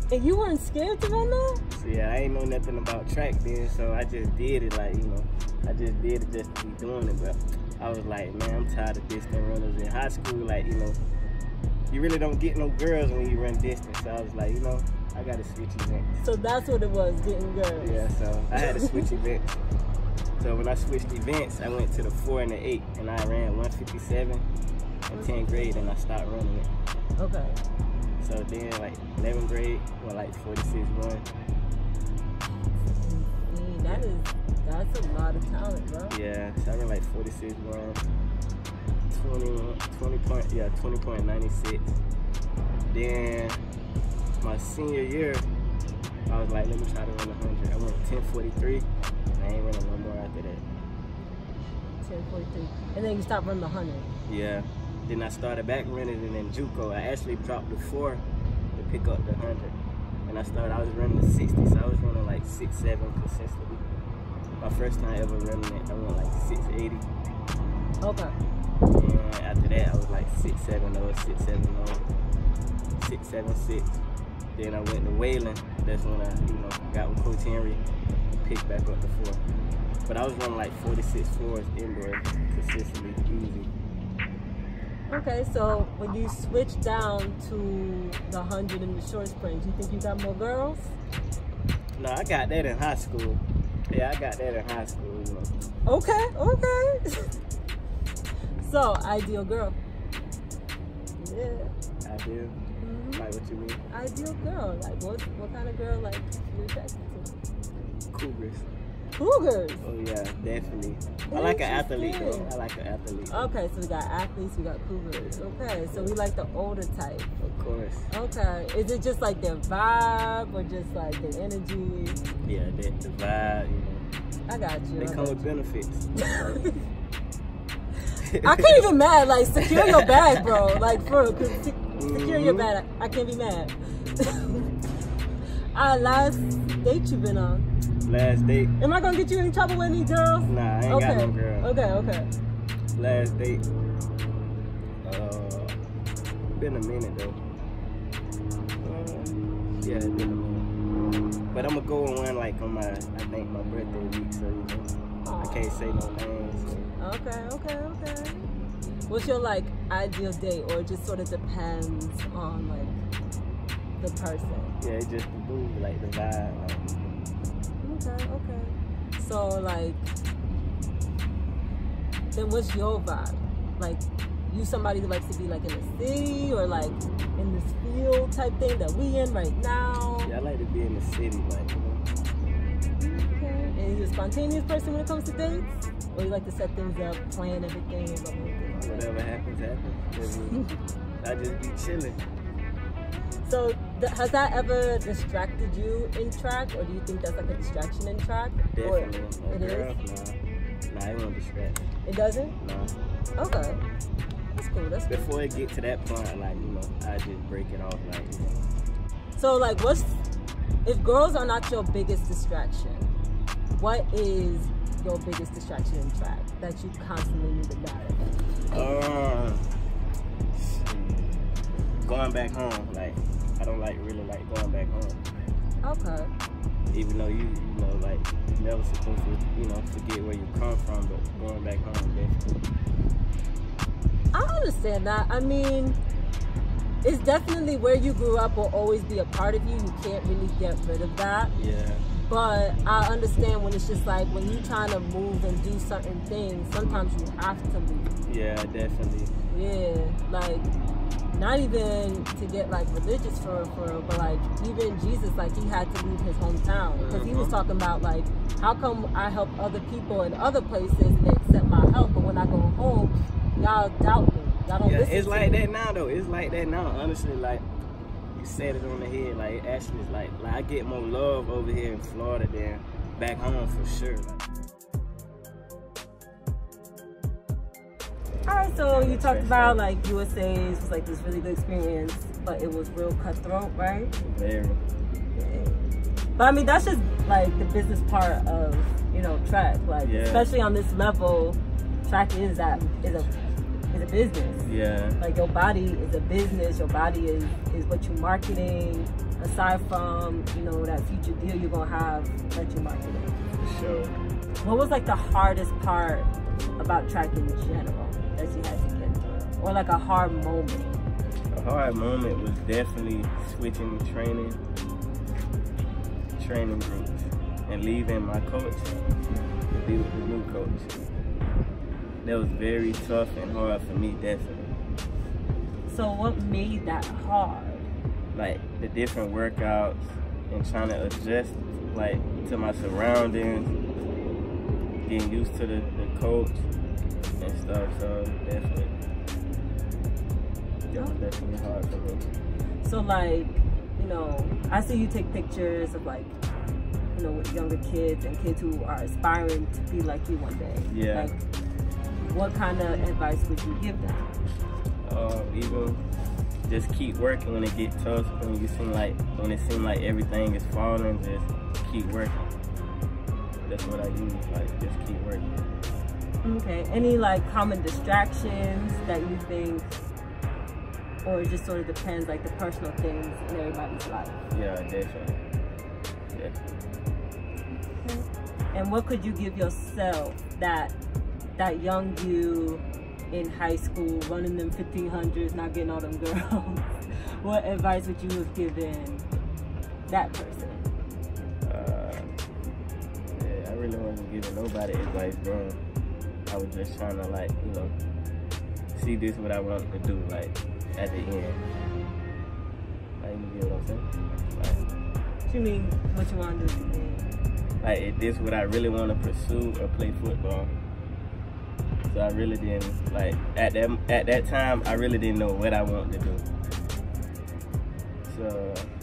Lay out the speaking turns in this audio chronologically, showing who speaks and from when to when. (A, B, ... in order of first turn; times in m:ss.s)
0:00.1-0:01.6 A
0:01.7-0:11.0 B
0:11.9-0:16.2 B
0:16.2-0:18.1 A
0:17.8-0:19.6 B
0:18.6-0:19.1 A
0:20.4-0:24.5 B
0:25.1-0:26.7 B
0:25.1-0:25.9 A
0:27.2-0:27.6 A
0:28.2-0:31.3 B
0:32.7-0:36.2 A
0:36.1-0:38.0 B
0:39.1-0:42.0 B
0:42.9-0:43.6 B
0:44.4-0:45.5 B
0:46.3-0:50.6 B
0:52.0-0:54.1 A
0:54.3-0:58.2 B
0:58.8-0:59.8 B
1:00.3-1:03.8 B
1:04.6-1:07.1 B
1:08.0-1:08.3 A
1:09.0-1:12.0 B
1:13.0-1:14.0 B
1:14.6-1:19.4 B
1:20.1-1:23.7 B
1:25.1-1:31.0 A
1:32.0-1:35.5 B
1:35.9-1:37.2 A
1:38.6-1:39.8 A
1:41.2-1:41.7 A
1:42.0-1:42.6 B
1:42.8-1:43.2 A
1:43.2-1:43.8 B
1:43.9-1:47.3 A
1:48.1-1:48.7 B
1:49.2-1:49.8 A
1:49.8-1:53.5 B
1:51.3-1:52.5 A
1:53.3-1:57.3 A
1:55.1-1:56.1 B
1:57.4-1:58.1 B
1:58.1-2:02.2 A
2:02.4-2:04.0 B
2:04.5-2:05.5 A
2:05.0-2:06.6 B
2:06.2-2:06.8 A
2:08.3-2:08.8 B
2:08.4-2:14.7 A
2:09.6-2:10.5 B
2:12.0-2:12.7 B
2:15.8-2:17.6 A
2:18.0-2:18.7 B
2:18.8-2:22.3 A
2:20.5-2:21.7 B
2:23.0-2:23.6 B
2:25.0-2:25.8 B
2:26.5-2:27.4 B
2:28.8-2:30.7 B
2:31.5-2:36.9 B
2:35.2-2:35.6 A
2:37.0-2:38.5 A
2:39.1-2:43.0 A
2:44.0-2:44.8 A
2:44.8-2:47.0 B
2:47.8-2:50.1 A
2:52.3-3:00.3 A
3:00.2-3:02.0 B
3:03.0-3:09.1 A
3:08.7-3:10.6 B
3:11.2-3:12.2 B
3:13.4-3:20.0 A
3:18.7-3:20.4 B
3:20.9-3:21.8 B
3:22.0-3:22.5 A
3:22.6-3:22.9 B
3:23.4-3:23.8 A
3:24.5-3:25.3 A
3:25.1-3:28.6 B
3:29.4-3:30.2 A
3:30.8-3:33.1 A
3:33.8-3:38.2 A
3:38.7-3:39.6 B
3:40.5-3:41.4 B
3:42.0-3:45.2 B
3:45.8-3:46.3 A
3:46.9-3:52.6 B
3:54.3-3:56.0 A
3:57.0-4:01.5 A
4:01.6-4:02.0 B
4:02.3-4:08.1 A
4:06.8-4:07.0 B
4:08.2-4:09.3 B
4:09.5-4:10.7 A
4:11.3-4:25.6 A
4:17.0-4:17.5 B
4:24.8-4:27.6 B
4:28.4-4:34.4 B
4:38.5-4:44.1 A
4:38.9-4:39.8 B
4:44.2-4:44.8 B
4:45.4-4:45.8 A
4:46.4-4:53.3 A
4:50.0-4:50.5 B
4:53.9-4:54.7 A
4:54.6-4:55.2 B
4:55.2-5:03.4 A
5:03.6-5:04.2 B
5:04.6-5:11.0 A
5:11.5-5:14.6 B
5:16.4-5:18.9 B
5:19.7-5:20.9 B
5:22.2-5:24.7 B
5:25.9-5:27.9 A
5:28.3-5:33.7 B
5:35.0-5:36.6 B
5:37.4-5:38.9 B
5:40.9-5:42.3 B
5:42.8-5:46.4 A
5:47.1-5:51.4 A
5:50.9-5:51.3 B
5:52.2-5:54.3 A
5:55.0-5:56.0 B
5:56.7-6:02.4 B
6:03.6-6:05.5 B
6:06.4-6:09.9 A
6:11.2-6:14.4 A
6:14.5-6:15.4 B
6:18.0-6:21.0 A
6:21.6-6:29.2 A
6:30.1-6:30.8 A
6:31.6-6:32.3 B
6:33.3-6:35.8 B
6:36.5-6:38.0 B
6:39.0-6:41.6 B
6:43.2-6:44.9 B
6:45.5-6:47.3 A
6:47.8-6:50.7 B
6:52.1-6:56.5 B
6:58.2-6:58.9 B